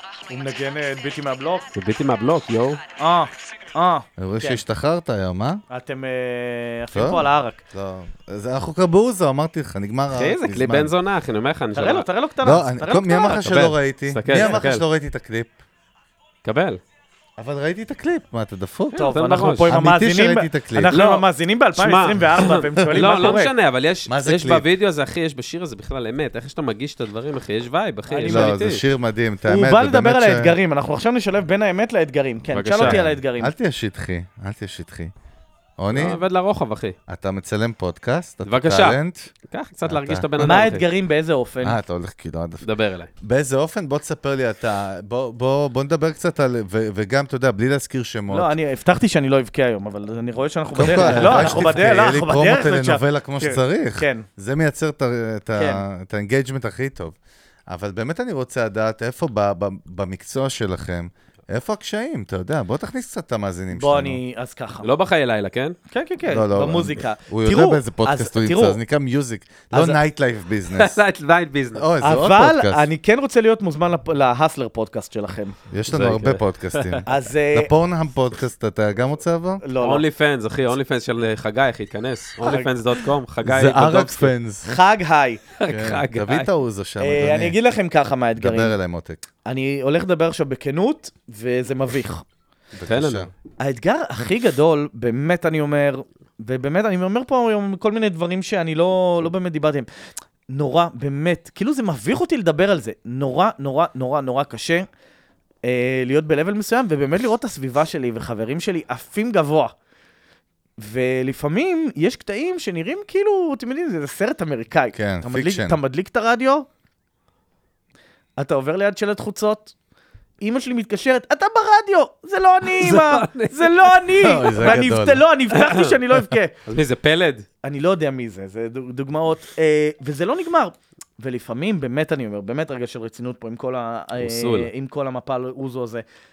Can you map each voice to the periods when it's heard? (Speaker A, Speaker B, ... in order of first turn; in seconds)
Speaker A: 0.3-1.6, 3.0-4.6, 5.7-7.6, 11.7-13.5, 14.3-14.6, 18.9-23.5, 28.1-28.5, 29.5-33.5, 40.4-41.8, 48.3-54.2, 55.5-55.8, 63.7-64.9, 65.9-68.8, 69.7-70.0, 72.0-75.5, 77.1-77.7, 79.6-80.0, 82.4-82.7, 84.6-85.4, 87.0-88.7, 89.4-92.2, 93.6-99.9, 100.5-104.8, 105.6-109.7, 110.8-116.7, 118.4-119.7, 120.4-126.5, 127.6-136.0
Speaker B: 1.7-2.8, 10.1-12.1, 13.4-14.8, 16.4-16.8, 19.0-19.7, 20.9-28.8, 32.5-33.0, 35.9-36.9, 38.5-40.8, 42.6-43.1, 50.8-51.7, 64.8-65.8, 70.7-71.8, 75.9-77.0, 79.8-84.3, 85.6-86.5, 92.9-93.3, 122.8-123.9, 125.5-126.0, 126.7-127.5, 134.2-134.7
Speaker C: 4.2-5.6, 6.9-10.9, 12.4-15.6, 17.4-19.1, 19.7-20.9, 24.1-24.6, 28.3-30.6, 32.8-35.1, 35.8-36.2, 37.1-39.3, 39.9-40.6, 41.6-42.6, 43.2-48.5, 50.7-57.1, 57.7-64.2, 66.2-71.0, 71.7-72.9, 75.7-79.6, 83.4-84.7, 85.7-87.5, 88.4-89.2, 92.7-93.3, 114.9-115.8, 124.2-125.2